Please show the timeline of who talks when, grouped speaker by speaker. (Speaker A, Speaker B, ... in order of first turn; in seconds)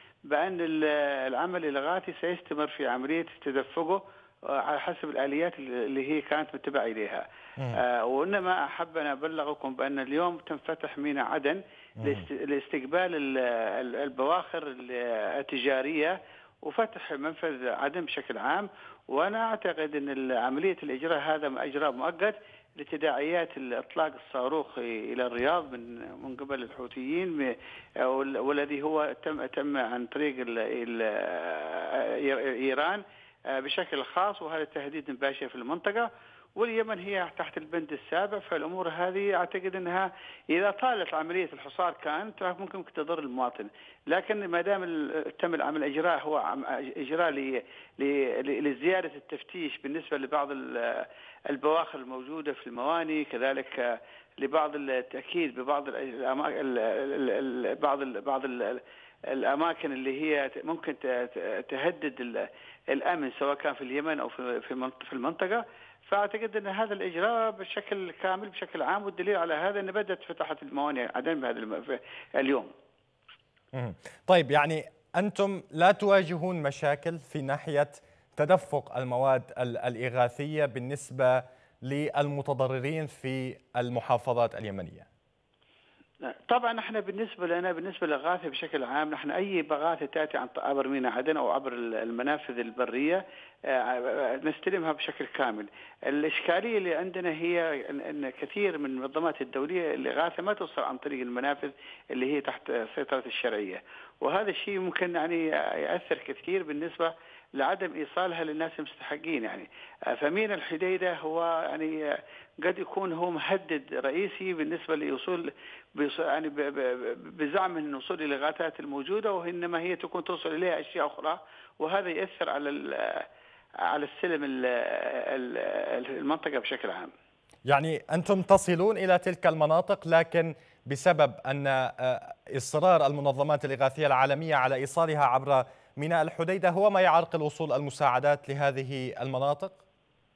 Speaker A: 0.3-33.0, 33.5-72.7, 86.3-112.0, 112.6-123.2, 123.9-127.1
Speaker B: 12.0-12.3, 73.7-85.1, 127.7-139.8